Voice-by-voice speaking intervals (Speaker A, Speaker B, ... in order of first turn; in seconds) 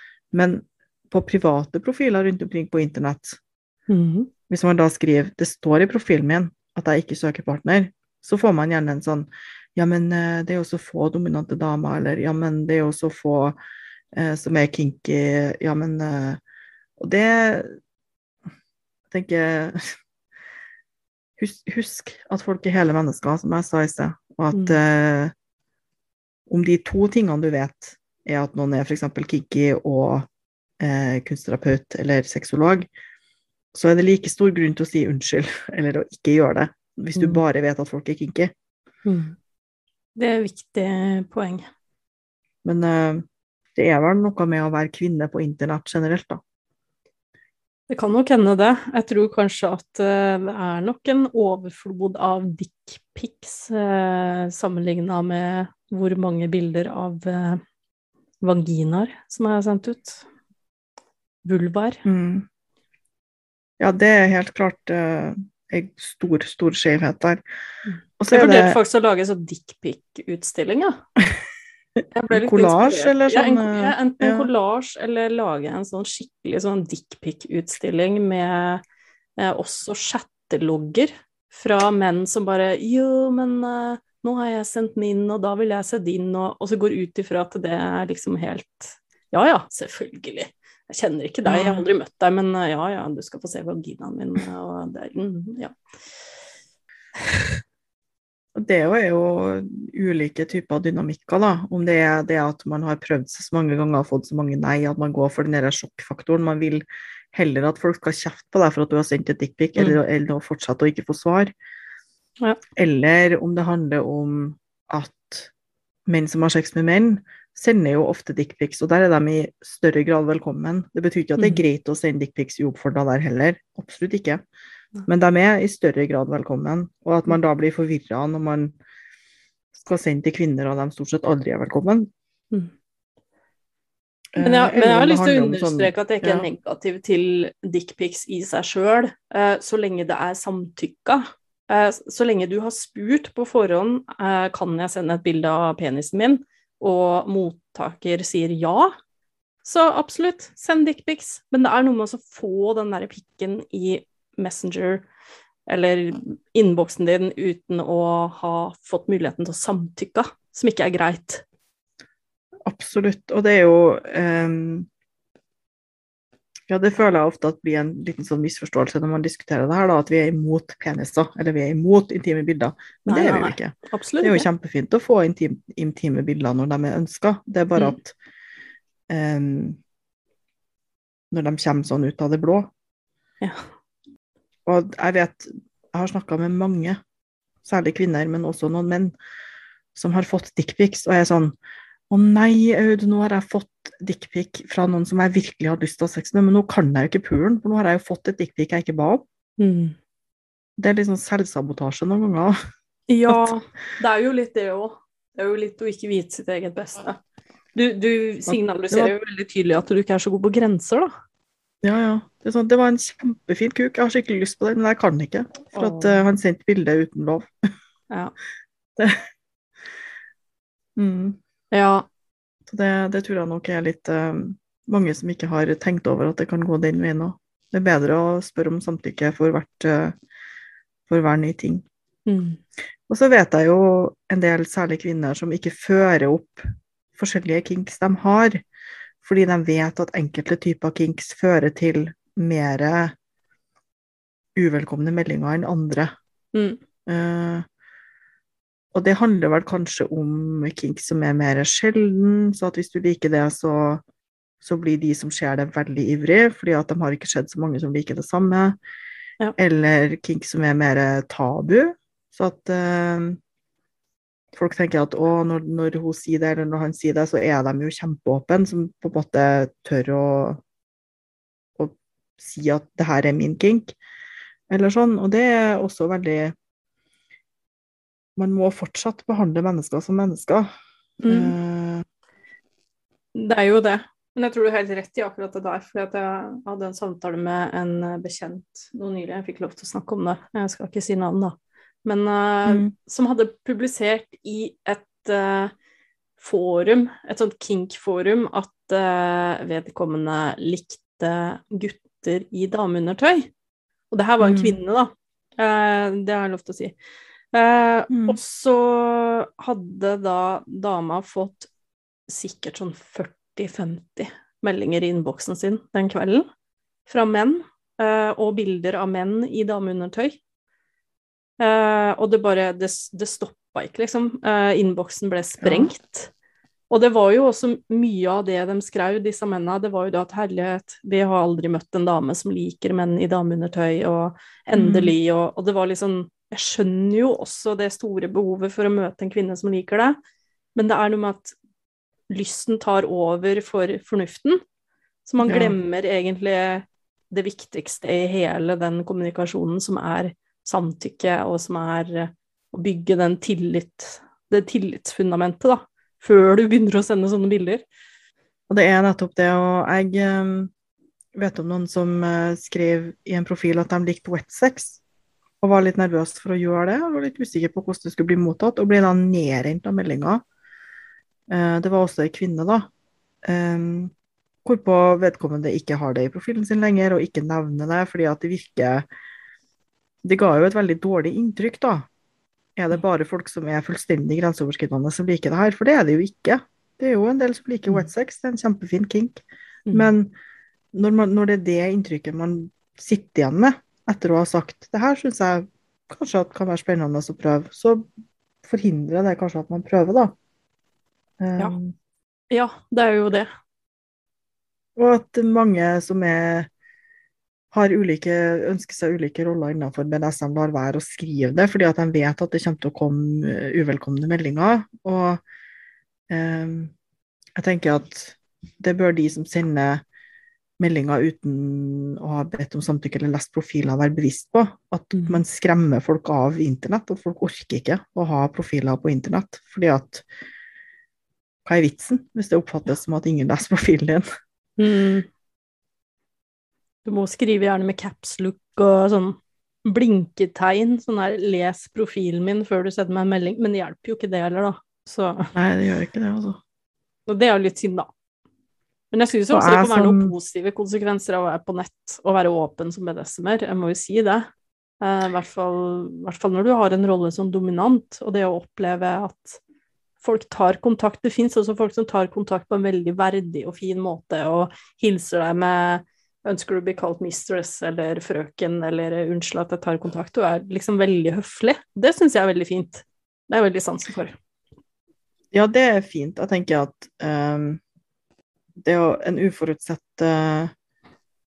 Speaker A: 0.3-3.4, 4.5-13.6, 14.1-16.4, 17.0-17.8, 19.1-19.9, 21.4-25.3, 26.5-30.3, 30.8-32.9, 33.7-38.5, 42.6-43.2, 43.8-46.4, 62.0-62.5, 63.8-67.4, 68.2-68.8, 72.3-74.5, 91.5-91.9, 98.5-111.5, 112.8-115.5, 116.1-124.4, 125.1-128.8, 129.7-132.1, 134.3-136.4, 162.7-164.9, 166.7-178.1, 179.1-179.8, 181.3-182.7, 184.7-187.0, 187.6-189.1, 189.9-191.6, 192.1-199.2, 200.8-202.6, 203.3-203.5, 208.5-209.1, 211.8-217.5, 218.9-219.2, 220.9-221.4, 222.7-230.1, 231.1-231.8, 233.1-236.6, 237.2-238.6, 239.2-243.1, 244.6-246.1, 247.1-247.6, 248.9-254.0, 254.6-258.8, 259.6-263.4, 264.5-270.6, 271.8-273.9, 274.7-276.5, 278.4-280.7, 281.2-282.0, 292.6-292.9, 304.4-304.8, 308.1-308.4, 325.6-325.9, 334.7-335.1, 345.4-345.7, 358.7-360.7, 361.3-365.0, 365.6-370.4, 371.5-372.9, 373.4-374.1, 374.6-379.1, 380.2-382.1, 382.8-389.4, 389.9-390.3, 390.9-398.1, 398.6-400.3, 401.4-401.9, 404.9-406.7, 407.7-415.4, 416.3-416.9, 417.6-420.0, 420.8-430.2, 431.6-434.2, 445.5-446.6, 449.5-450.3, 475.5-477.8, 478.8-480.7
Speaker B: 3.9-4.3, 24.5-24.8, 37.1-37.4, 39.0-39.4, 40.1-41.6, 47.9-57.6, 58.4-60.2, 61.4-62.0, 67.9-71.0, 72.1-78.8, 79.4-95.7, 121.4-121.6, 134.4-148.9, 149.6-155.1, 155.7-161.4, 173.1-174.4, 199.6-199.9, 203.1-207.2, 207.7-211.1, 215.7-216.2, 221.7-222.1, 232.2-232.6, 246.5-246.8, 281.2-281.5, 283.3-295.7, 296.4-303.5, 304.1-306.9, 307.5-311.7, 312.3-316.4, 317.1-320.4, 321.6-326.3, 326.9-340.2, 340.7-341.6, 342.3-344.6, 345.2-357.8, 389.9-390.1, 402.5-403.5, 425.1-425.4, 434.8-435.3, 437.0-445.5, 447.3-448.1, 449.1-454.5, 455.0-459.6, 460.2-474.3